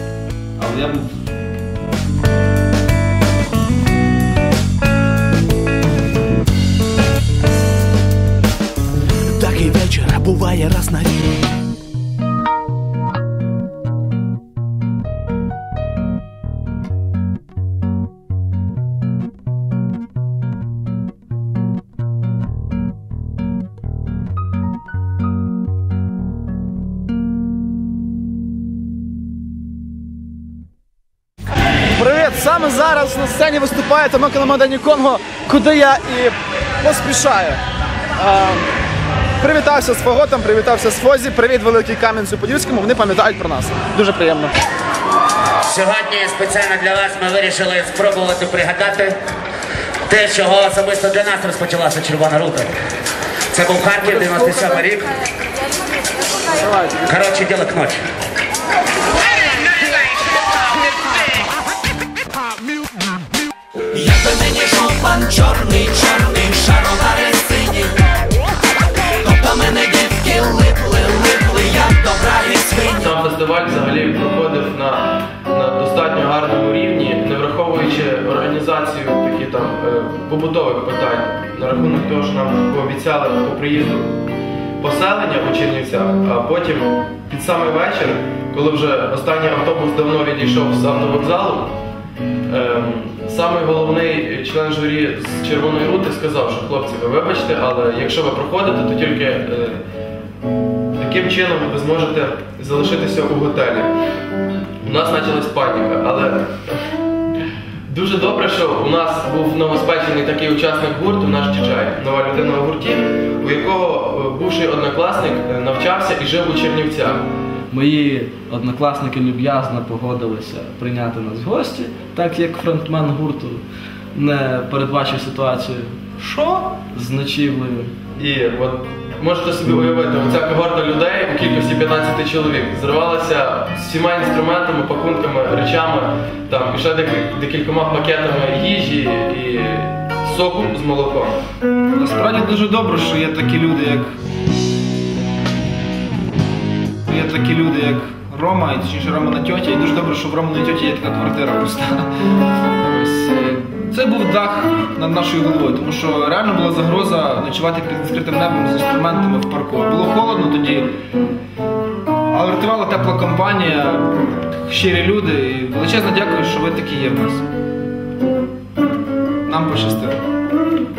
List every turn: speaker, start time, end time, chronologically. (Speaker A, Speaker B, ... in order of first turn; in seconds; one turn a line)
Speaker A: 0.6-1.2
Speaker B: 9.3-11.3
Speaker C: 31.9-37.6
Speaker C: 38.2-38.7
Speaker C: 39.4-44.5
Speaker D: 45.6-49.2
Speaker D: 50.1-52.7
Speaker D: 53.5-55.1
Speaker D: 57.0-58.0
Speaker B: 63.9-67.9
Speaker B: 69.2-72.8
Speaker E: 72.9-84.2
Speaker E: 84.8-91.8
Speaker E: 92.5-99.8
Speaker E: 101.0-103.9
Speaker E: 104.8-106.9
Speaker E: 107.9-117.3
Speaker F: 117.7-126.0
Speaker A: 126.2-126.7
Speaker F: 126.9-127.9
Speaker E: 128.2-141.4
Speaker A: 141.9-144.1
Speaker A: 147.1-152.1
Speaker A: 152.8-160.9
Speaker A: 162.3-167.4
Speaker A: 169.4-170.2